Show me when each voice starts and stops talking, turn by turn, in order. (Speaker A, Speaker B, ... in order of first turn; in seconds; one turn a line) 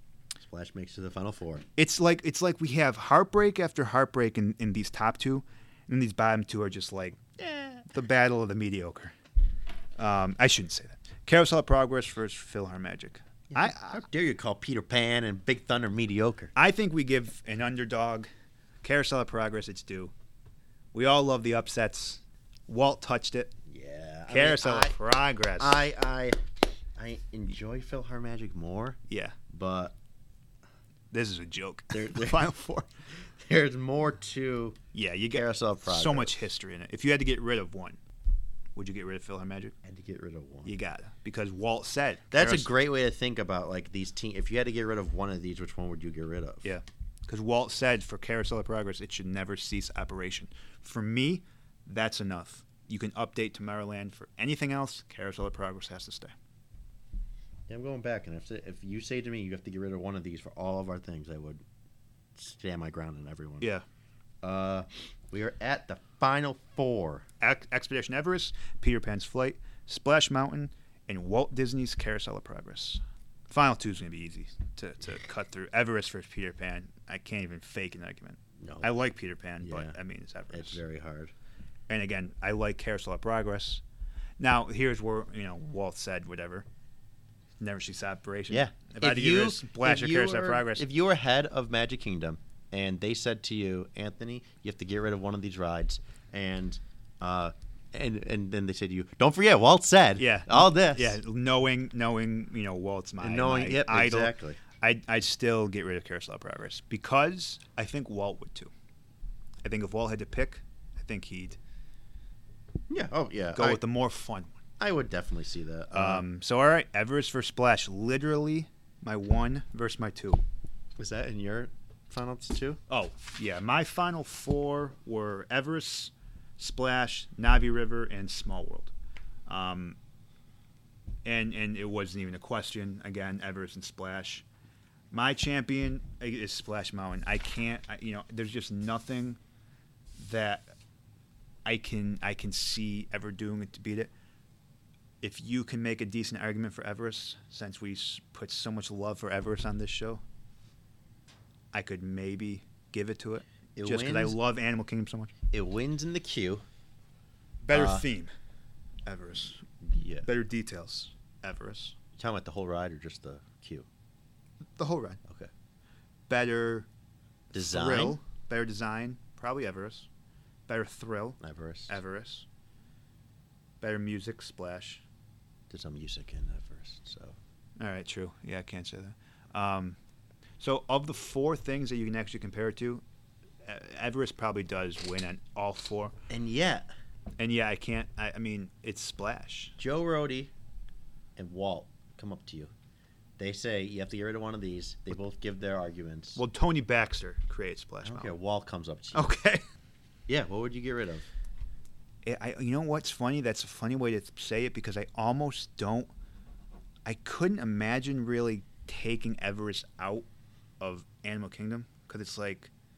Speaker A: 0.4-1.7
Speaker B: 1.8-9.1
Speaker B: 10.0-14.0
Speaker A: 13.5-16.5
Speaker B: 16.6-18.3
Speaker B: 18.8-20.1
Speaker B: 20.9-23.5
Speaker A: 23.7-25.0
Speaker B: 24.3-25.8
Speaker A: 25.6-29.0
Speaker B: 29.1-29.4
Speaker A: 29.5-29.9
Speaker B: 31.1-32.9
Speaker A: 31.9-32.5
Speaker A: 33.1-34.8
Speaker B: 34.9-38.0
Speaker A: 35.3-36.4
Speaker B: 38.8-39.7
Speaker A: 39.8-40.7
Speaker B: 40.6-42.7
Speaker A: 42.3-46.8
Speaker B: 46.6-56.4
Speaker A: 57.7-61.6
Speaker A: 62.4-63.7
Speaker A: 64.4-67.3
Speaker B: 67.4-80.8
Speaker A: 78.6-78.9
Speaker A: 79.6-80.0
Speaker A: 80.5-81.3
Speaker B: 81.9-83.8
Speaker B: 84.4-86.7
Speaker B: 87.6-90.8
Speaker A: 88.5-101.2
Speaker B: 100.2-108.7
Speaker A: 103.2-104.6
Speaker B: 109.6-111.6
Speaker A: 112.9-113.8
Speaker B: 113.6-114.6
Speaker A: 114.8-116.2
Speaker B: 115.9-120.4
Speaker A: 121.0-122.8
Speaker B: 122.9-128.9
Speaker B: 129.5-130.0
Speaker B: 131.2-134.4
Speaker B: 135.1-139.4
Speaker B: 140.2-140.7
Speaker B: 141.6-144.1
Speaker B: 145.2-150.2
Speaker B: 151.7-155.3
Speaker A: 153.8-154.4
Speaker A: 155.5-156.6
Speaker B: 157.6-158.3
Speaker A: 157.7-158.1
Speaker B: 159.1-159.6
Speaker A: 159.8-160.3
Speaker B: 160.3-162.0
Speaker A: 162.2-163.9
Speaker B: 164.8-165.2
Speaker A: 165.2-165.5
Speaker B: 166.3-166.9
Speaker A: 167.5-168.2
Speaker B: 167.5-170.1
Speaker B: 170.7-172.5
Speaker A: 171.4-172.0
Speaker B: 173.8-175.0
Speaker A: 175.7-177.4
Speaker B: 177.8-180.0
Speaker B: 180.6-183.0
Speaker B: 183.6-186.2
Speaker A: 186.3-186.9
Speaker B: 187.4-189.8
Speaker A: 189.8-190.5
Speaker A: 191.4-192.7
Speaker A: 193.4-196.4
Speaker B: 196.4-198.4
Speaker A: 198.0-199.3
Speaker B: 199.1-199.6
Speaker A: 200.3-201.3
Speaker B: 202.2-206.1
Speaker B: 207.1-210.3
Speaker B: 210.8-212.7